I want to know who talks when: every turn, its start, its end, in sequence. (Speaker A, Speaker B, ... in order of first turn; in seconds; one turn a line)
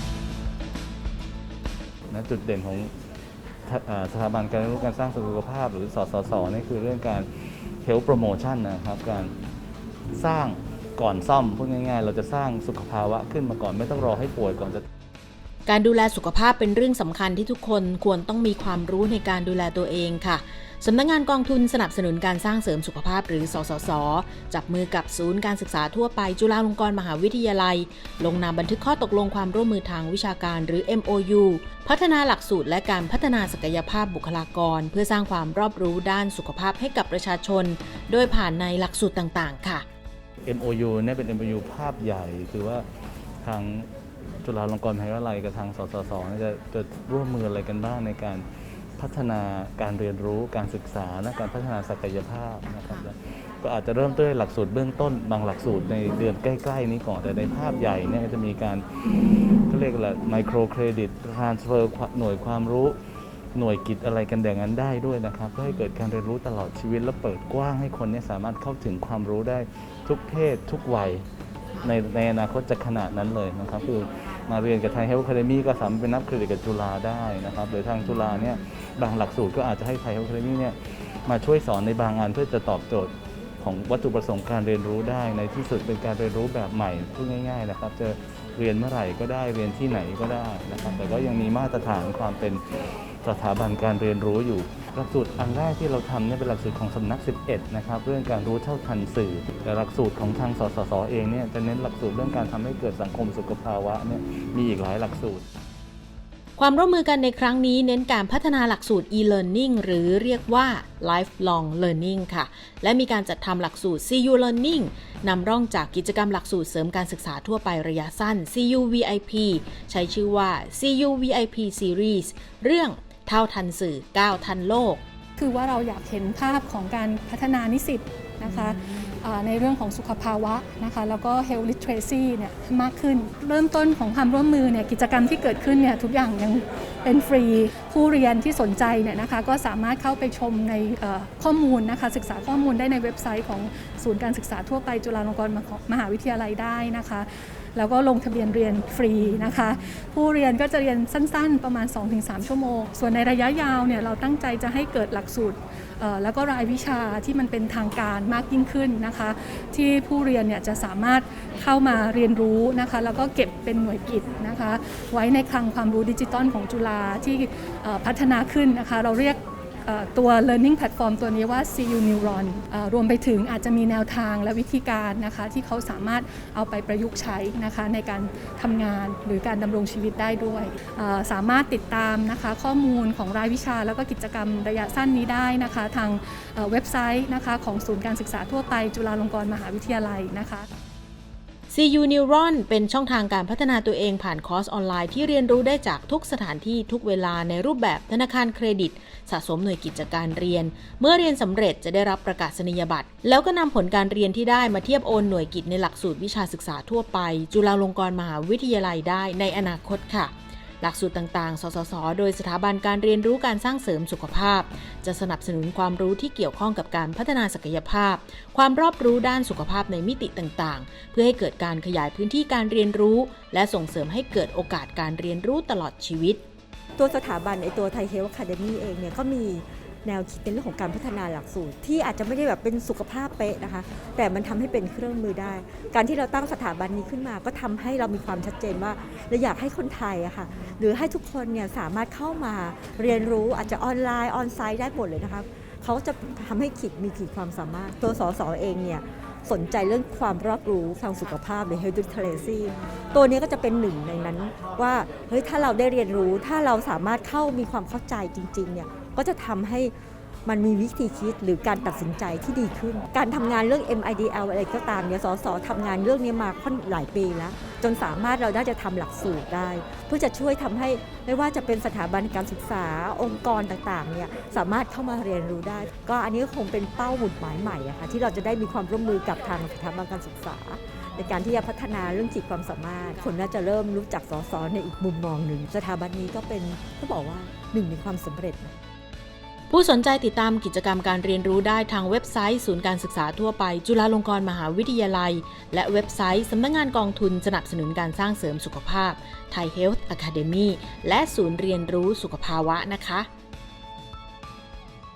Speaker A: 2.1-2.9
Speaker A: 3.7-9.3
Speaker A: 10.1-14.9
Speaker B: 15.7-39.9
Speaker A: 40.4-42.9
Speaker A: 43.4-43.9
Speaker A: 44.4-58.9
Speaker B: 52.8-53.1
Speaker A: 59.7-63.0
Speaker A: 63.5-71.3
Speaker A: 71.8-92.6
Speaker B: 78.1-78.6
Speaker A: 93.2-105.5
Speaker B: 106.6-125.0
Speaker C: 125.4-190.7
Speaker B: 128.5-129.1
Speaker B: 191.7-226.4
Speaker D: 227.0-259.9
Speaker D: 260.4-288.7
Speaker B: 289.7-303.3